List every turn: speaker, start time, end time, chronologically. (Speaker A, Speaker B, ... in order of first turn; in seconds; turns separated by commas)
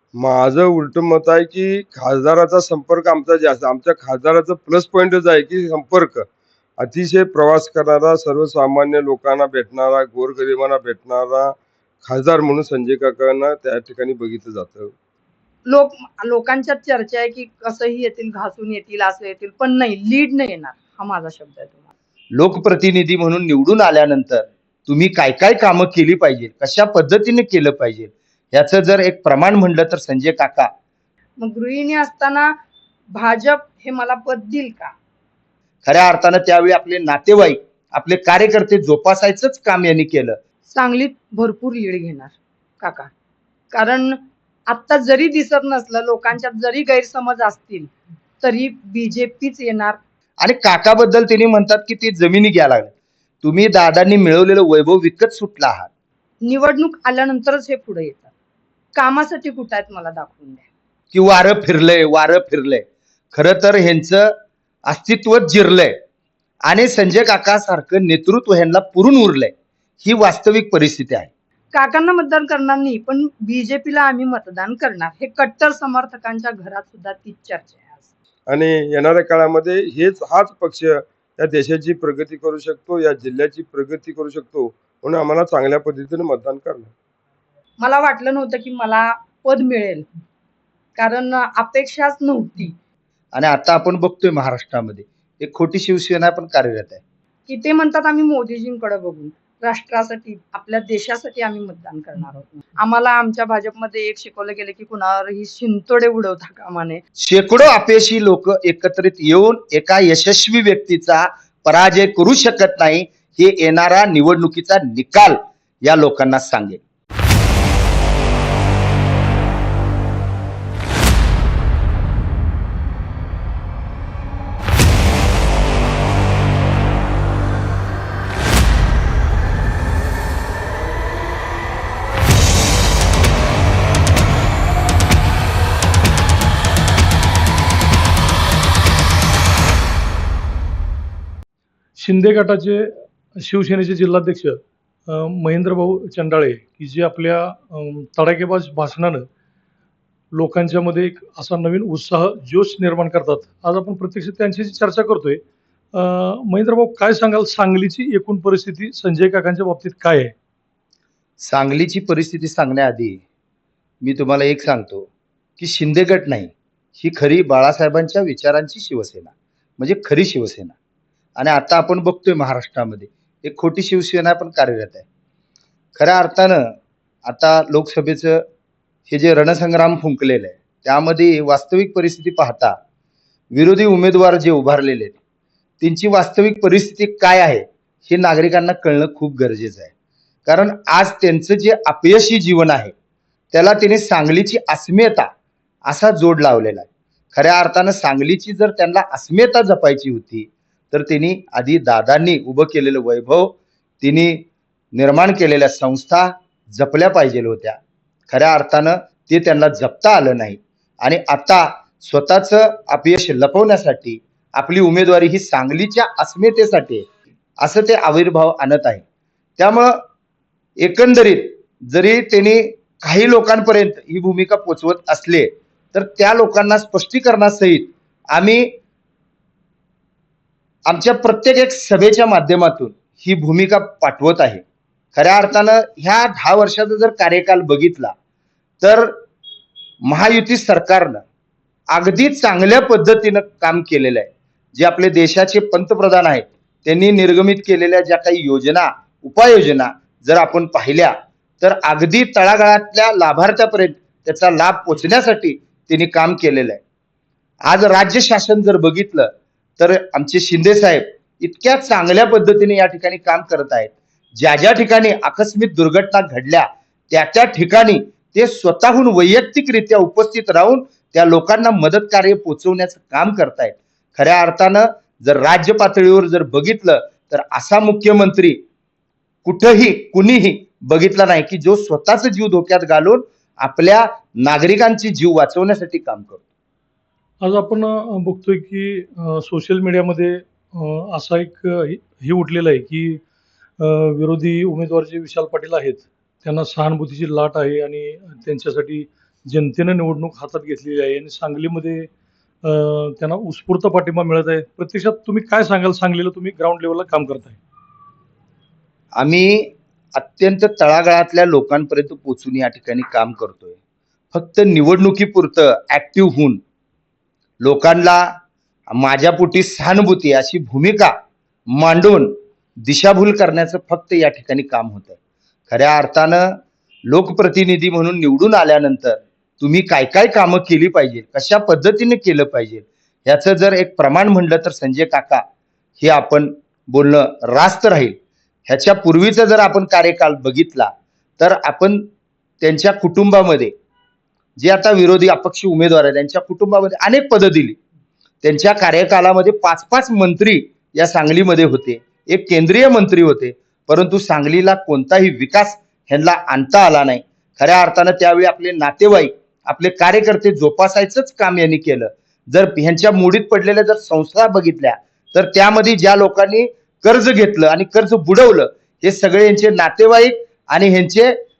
Speaker A: 0.1-6.2, Speaker A: 6.8-14.9, Speaker B: 15.7-21.9, Speaker C: 22.4-30.7, Speaker B: 31.4-32.5, Speaker B: 33.1-34.9, Speaker C: 35.8-40.4, Speaker B: 40.7-43.1, Speaker B: 43.7-50.0, Speaker C: 50.4-52.9, Speaker C: 53.4-55.9, Speaker B: 56.4-58.3, Speaker B: 58.9-60.6, Speaker C: 61.1-64.3, Speaker C: 64.8-66.0, Speaker C: 66.7-71.3, Speaker B: 71.7-78.0, Speaker A: 78.5-86.9, Speaker B: 87.8-90.1, Speaker B: 91.0-92.8, Speaker C: 93.3-97.0, Speaker B: 97.5-107.0, Speaker C: 107.2-116.8, Speaker D: 142.0-149.3, Speaker D: 150.3-155.4, Speaker D: 155.9-160.3, Speaker C: 161.4-163.2, Speaker C: 164.0-170.7, Speaker C: 171.4-175.0, Speaker C: 175.9-178.4, Speaker C: 179.1-182.8, Speaker C: 183.5-185.2, Speaker C: 185.8-189.9, Speaker C: 190.4-192.9, Speaker C: 193.5-195.3, Speaker C: 195.9-217.1, Speaker C: 217.6-219.0, Speaker C: 219.6-220.0, Speaker C: 220.8-228.7, Speaker C: 230.9-234.6, Speaker C: 235.1-238.1, Speaker C: 238.8-239.2, Speaker C: 240.0-241.2, Speaker C: 241.9-256.8, Speaker C: 257.6-278.6, Speaker C: 279.4-286.4, Speaker D: 287.4-293.2, Speaker D: 293.8-302.1, Speaker D: 302.6-307.6, Speaker C: 309.2-313.8, Speaker C: 314.3-316.6, Speaker C: 317.6-318.3, Speaker C: 318.9-321.1, Speaker C: 321.7-325.2, Speaker C: 325.7-335.4, Speaker C: 336.0-342.1, Speaker C: 342.6-343.7, Speaker C: 344.6-347.8, Speaker C: 348.4-371.4